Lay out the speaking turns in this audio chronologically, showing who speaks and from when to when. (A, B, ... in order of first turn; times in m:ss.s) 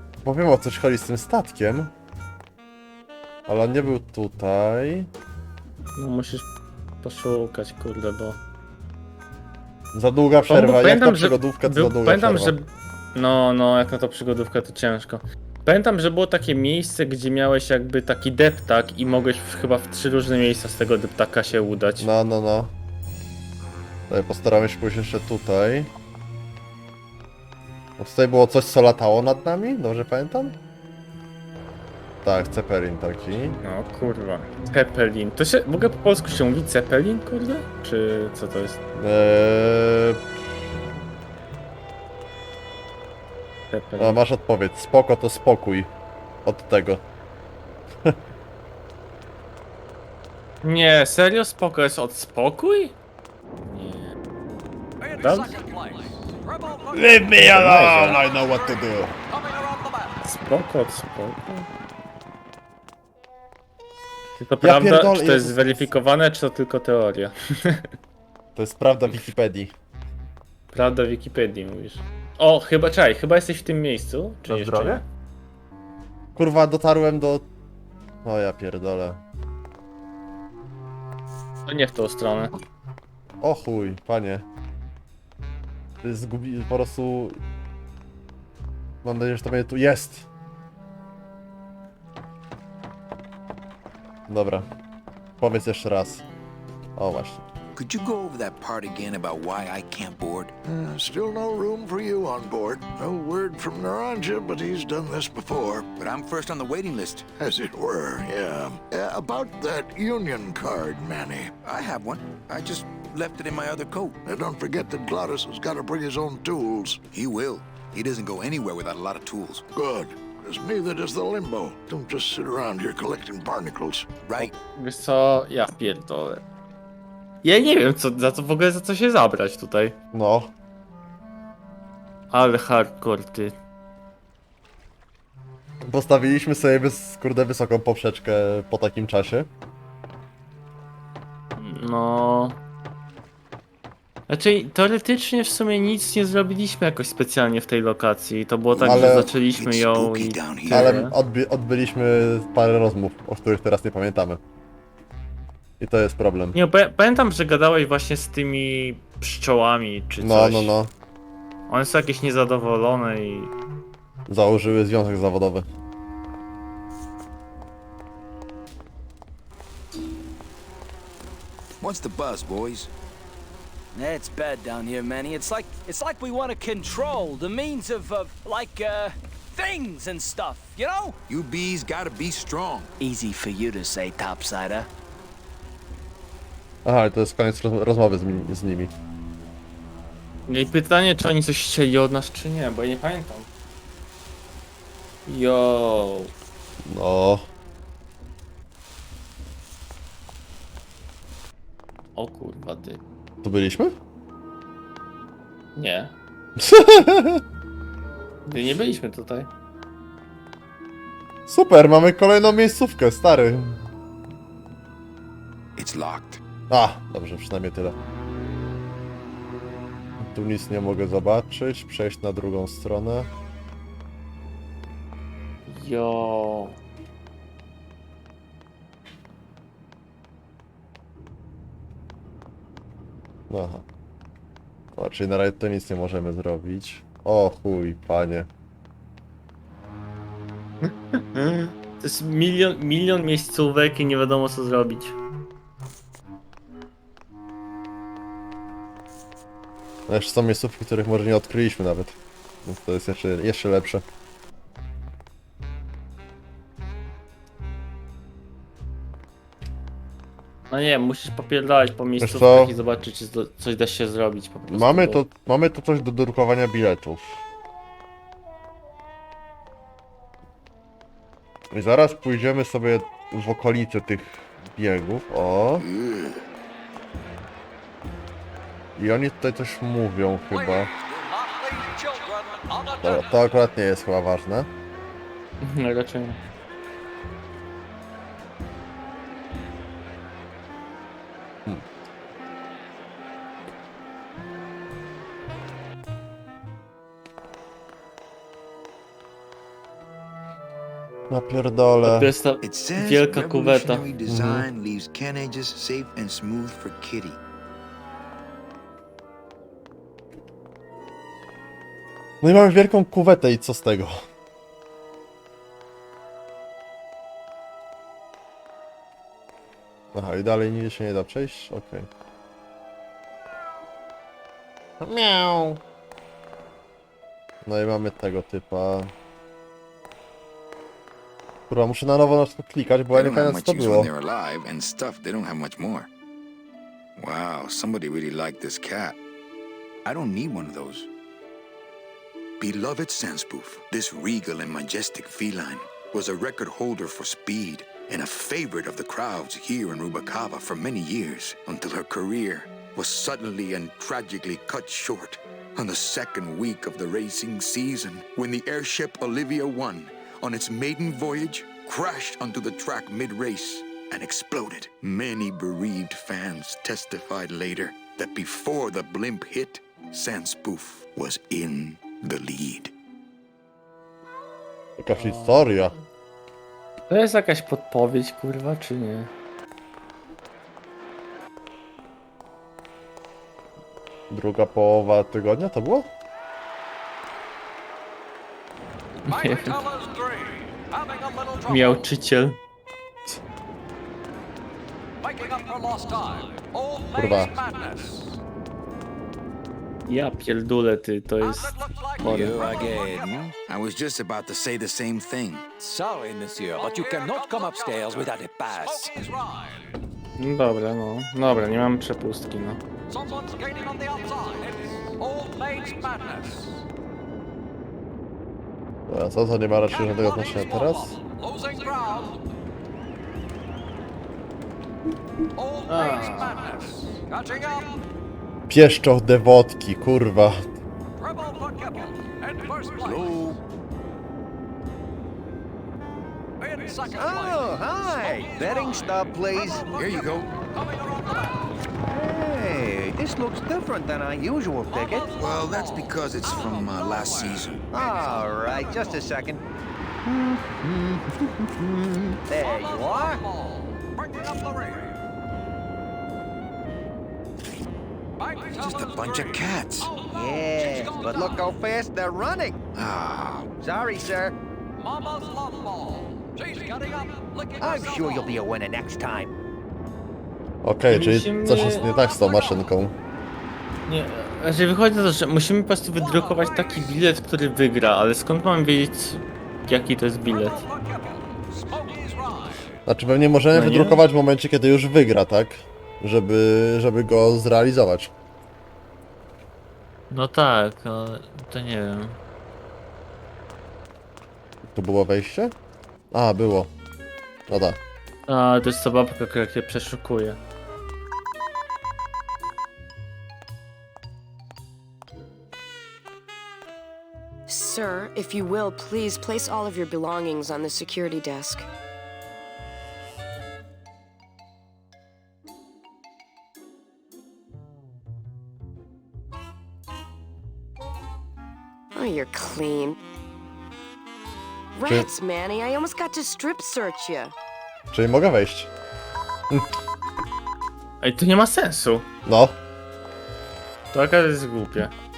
0:00.2-0:01.9 A
0:03.5-0:05.1 A
0:06.0-0:06.5 B
0:07.0-0:08.4 B
0:09.9-0:12.6 A
0:10.5-0:22.1 B
0:22.0-0:22.7 A
0:24.1-0:25.9 A
0:28.0-0:30.6 A
0:32.2-0:33.6 A
0:33.6-0:38.8 B
0:39.0-0:40.2 A
0:43.7-0:44.2 B
0:44.0-0:45.9 A
0:46.4-0:47.0 A
0:50.6-0:53.0 B
0:53.7-0:54.1 B
0:55.2-0:55.6 B
0:56.9-0:59.2 A
0:57.4-0:58.2 B
1:00.2-1:01.7 B
1:04.4-1:07.9 B
1:04.6-1:05.9 A
1:08.6-1:09.7 A
1:10.7-1:15.0 B
1:14.5-1:15.0 A
1:16.4-1:17.5 A
1:18.2-1:19.2 A
1:21.7-1:22.5 B
1:23.4-1:24.4 A
1:26.0-1:27.4 A
1:29.0-1:30.3 A
1:34.3-1:34.7 A
1:35.4-1:36.2 A
1:37.0-1:37.4 A
1:37.8-1:40.5 C
1:40.7-1:45.9 D
1:46.0-1:47.3 C
1:47.4-1:51.5 D
1:51.6-1:54.2 C
1:54.3-1:57.0 D
1:57.1-1:59.7 C
1:59.8-2:04.1 D
2:04.2-2:04.5 C
2:04.7-2:06.4 B
2:07.4-2:10.0 B
2:10.1-2:10.5 A
2:12.3-2:13.6 B
2:15.8-2:19.5 A
2:21.6-2:22.6 B
2:24.3-2:31.2 B
2:28.7-2:31.0 C
2:28.8-2:29.3 A
2:30.7-2:34.4 A
2:35.8-2:36.6 A
2:36.5-2:40.7 B
2:40.2-2:40.9 A
2:41.7-2:43.5 B
2:44.3-2:45.7 A
2:51.8-2:52.9 C
2:53.9-3:01.2 E
3:01.3-3:02.9 C
3:03.0-3:04.9 E
3:06.8-3:08.9 A
3:10.5-3:13.5 B
3:15.3-3:16.3 B
3:16.8-3:17.5 A
3:22.2-3:23.0 B
3:23.4-3:24.0 A
3:25.8-3:26.2 B
3:26.6-3:27.4 A
3:28.5-3:29.5 B
3:31.5-3:33.8 A
3:35.8-3:36.4 C
3:36.7-3:38.0 A
3:40.2-3:43.3 A
3:45.7-3:46.8 B
3:53.5-3:53.8 A
3:55.0-3:58.5 A
4:00.8-4:05.2 B
4:10.1-4:14.0 A
4:20.7-4:25.2 B
4:22.2-4:22.7 A
4:24.7-4:27.4 A
4:31.7-4:35.9 A
4:35.8-4:36.4 C
4:39.0-4:40.9 A
4:43.0-4:44.7 A
4:45.6-4:46.4 B
5:01.3-5:02.3 A
5:02.0-5:04.0 B
5:02.6-5:07.4 C
5:04.3-5:04.7 A
5:12.4-5:14.2 A
5:20.1-5:22.1 A
5:25.0-5:25.8 A
5:27.6-5:29.1 A
5:31.7-5:34.1 A
5:33.1-5:36.1 C
5:37.2-5:39.2 C
5:40.0-5:41.1 C
5:42.6-6:12.9 C
6:15.0-6:15.9 A
6:15.2-6:15.6 B
6:17.1-6:19.3 B
6:24.3-6:26.1 A
6:29.3-6:29.8 B
6:31.7-6:32.6 B
6:37.1-6:37.6 A
6:40.1-6:42.7 B
6:42.2-6:45.7 C
6:42.3-6:42.7 E
6:45.8-6:49.3 E
6:50.4-6:52.8 B
6:59.1-7:01.2 A
7:05.9-7:06.7 B
7:08.7-7:10.8 A
7:13.0-7:13.6 C
7:17.1-7:19.9 F
7:20.0-7:20.5 C
7:22.1-7:25.3 F
7:25.4-7:27.9 C
7:27.9-7:29.6 F
7:30.2-7:33.4 F
7:38.8-7:40.2 C
7:40.2-7:42.8 F
7:42.9-7:43.7 C
7:43.8-7:44.5 F
7:47.8-7:49.5 F
7:50.8-7:53.1 A
7:51.1-7:52.1 B
7:54.1-8:00.8 B
8:03.1-8:08.3 A
8:03.7-8:04.2 B
8:10.3-8:12.4 B
8:14.9-8:15.7 A
8:16.3-8:16.9 A
8:17.7-8:18.0 A
8:18.5-8:20.6 B
8:27.7-8:31.9 G
8:42.1-8:43.2 G
8:44.9-8:47.5 G
8:48.1-8:48.9 A
8:51.2-8:52.3 B
8:52.4-8:52.8 A
8:54.1-8:55.1 B